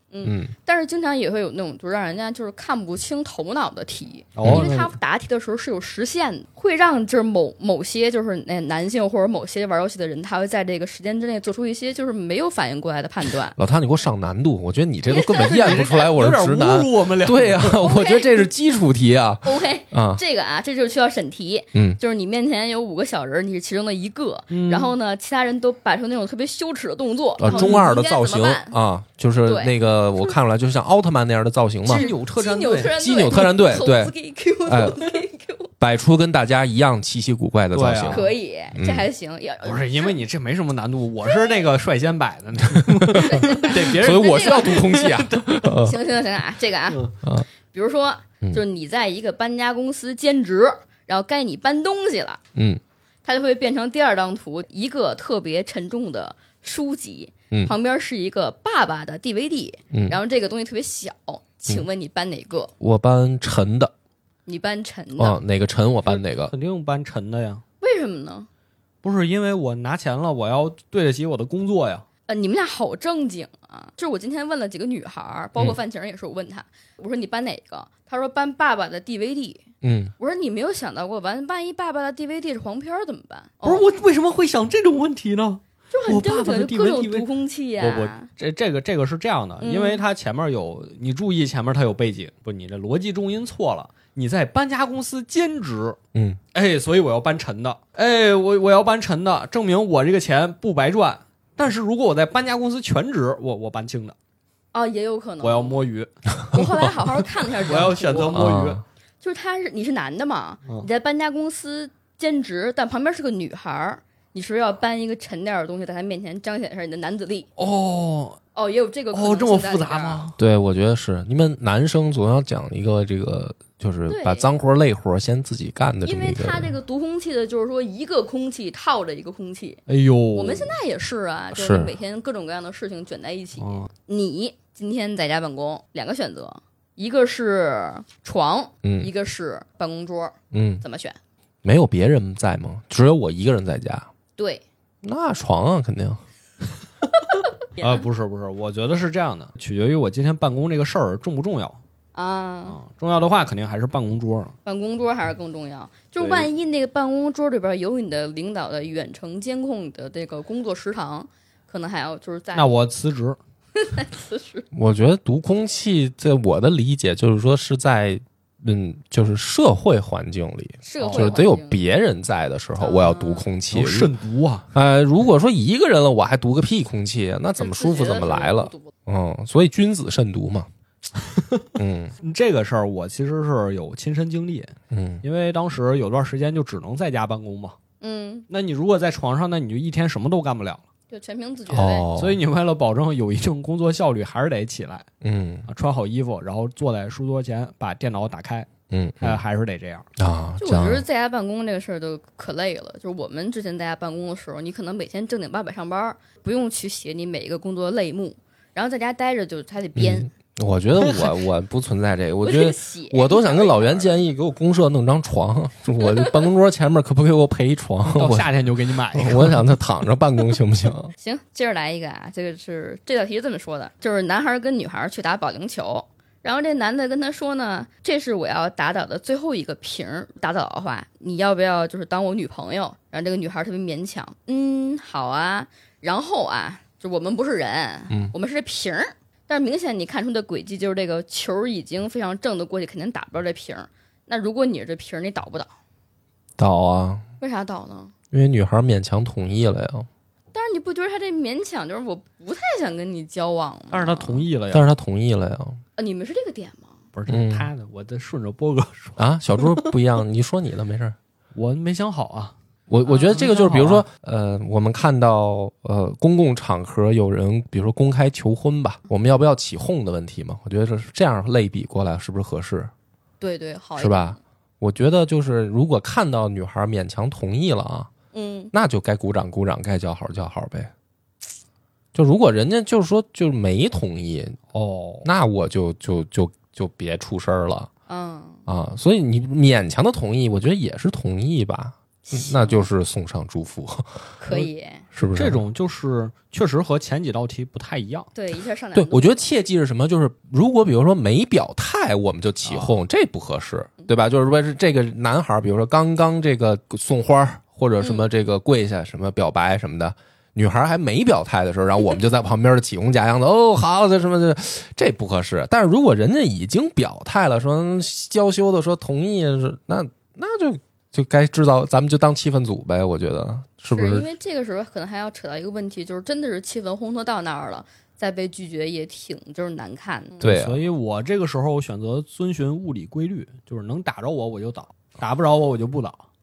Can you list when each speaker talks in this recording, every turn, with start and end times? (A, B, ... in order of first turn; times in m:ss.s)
0:00.1-0:13.6 A
0:00.2-0:00.5 B
0:04.4-0:04.9 C
0:04.4-0:04.7 B
0:13.5-0:20.2 B
0:15.1-0:16.1 A
0:15.4-0:17.8 C
0:17.8-0:18.5 A
0:19.4-0:28.8 A
0:21.7-0:22.0 B
0:24.5-0:24.9 C
0:27.4-0:32.1 B
0:27.4-0:27.8 C
0:29.4-0:30.3 A
0:31.8-0:32.9 C
0:31.9-0:35.7 A
0:33.0-0:34.1 B
0:34.6-0:35.0 B
0:35.8-0:39.0 B
0:37.7-0:38.3 C
0:38.1-0:40.1 A
0:39.6-0:45.6 C
0:41.2-0:41.6 A
0:42.7-0:46.0 B
0:43.1-0:45.0 A
0:45.7-0:47.1 A
0:46.9-0:47.1 C
0:47.7-0:52.4 A
0:52.5-0:52.8 B
0:53.2-1:02.7 A
0:59.9-1:00.2 B
1:02.8-1:03.9 B
1:04.4-1:05.4 A
1:05.2-1:06.5 B
1:06.0-1:07.6 C
1:07.8-1:08.5 A
1:09.0-1:12.0 C
1:12.3-1:19.6 A
1:19.8-1:20.1 B
1:20.2-1:23.8 A
1:23.6-1:27.3 C
1:25.9-1:28.3 A
1:27.8-1:36.0 C
1:29.6-1:30.0 A
1:36.1-1:36.4 B
1:36.5-1:44.1 C
1:44.7-1:45.8 A
1:45.4-1:46.1 C
1:46.5-1:48.4 A
1:47.6-1:48.8 C
1:48.3-1:48.8 B
1:49.2-1:57.5 A
1:57.6-1:58.4 C
1:58.5-2:00.2 A
1:59.1-2:00.4 C
2:00.4-2:06.7 B
2:04.1-2:04.5 A
2:06.0-2:09.8 A
2:09.9-2:10.8 C
2:10.3-2:21.2 A
2:11.5-2:11.9 B
2:13.6-2:13.9 C
2:18.8-2:19.1 B
2:20.5-2:20.8 B
2:21.6-2:24.1 B
2:24.4-2:24.6 A
2:25.0-2:26.2 B
2:27.4-2:28.0 A
2:27.8-2:31.8 C
2:32.1-2:32.8 A
2:32.7-2:34.6 C
2:34.6-2:42.7 A
2:36.2-2:36.5 C
2:42.5-2:43.4 C
2:43.8-2:44.6 A
2:44.7-2:54.1 B
2:50.8-2:51.8 A
2:51.0-2:51.4 C
2:52.8-2:53.4 A
2:53.7-2:54.7 C
2:54.7-3:00.7 B
2:57.5-2:58.9 A
3:01.2-3:01.6 C
3:01.8-3:02.1 B
3:02.2-3:07.8 C
3:04.9-3:05.2 B
3:08.0-3:08.4 A
3:08.5-3:10.8 C
3:11.1-3:12.1 A
3:11.7-3:12.4 B
3:12.2-3:15.0 C
3:15.2-3:15.7 B
3:15.7-3:18.7 C
3:18.9-3:19.4 B
3:19.2-3:20.1 C
3:20.2-3:21.0 B
3:20.6-3:30.3 A
3:30.0-3:38.5 B
3:31.0-3:31.3 C
3:32.4-3:34.2 A
3:36.0-3:36.3 A
3:38.0-3:39.8 C
3:39.1-3:41.1 B
3:41.2-4:05.7 A
4:06.6-4:07.2 B
4:07.4-4:08.1 A
4:08.3-4:10.1 B
4:10.5-4:14.4 A
4:13.9-4:14.9 C
4:14.7-4:15.8 B
4:16.0-4:16.9 A
4:17.1-4:20.0 C
4:17.3-4:17.7 B
4:19.2-4:21.2 B
4:21.5-4:22.5 C
4:22.9-4:32.9 B
4:23.0-4:23.4 A
4:23.3-4:24.0 C
4:33.4-4:34.4 A
4:34.0-4:38.1 B
4:38.3-4:38.7 A
4:38.7-4:40.9 B
4:42.1-4:44.6 B
4:44.7-4:45.3 C
4:45.2-4:47.9 B
4:48.1-4:48.6 A
4:48.7-4:54.2 B
4:52.2-4:52.9 A
4:54.4-4:55.0 A
4:55.1-4:55.6 B
4:55.3-4:58.3 C
4:58.3-4:59.5 A
4:58.9-5:24.3 B
5:02.6-5:03.0 C
5:08.0-5:08.2 A
5:23.9-5:30.5 A
5:30.4-5:30.8 B
5:30.4-5:36.2 C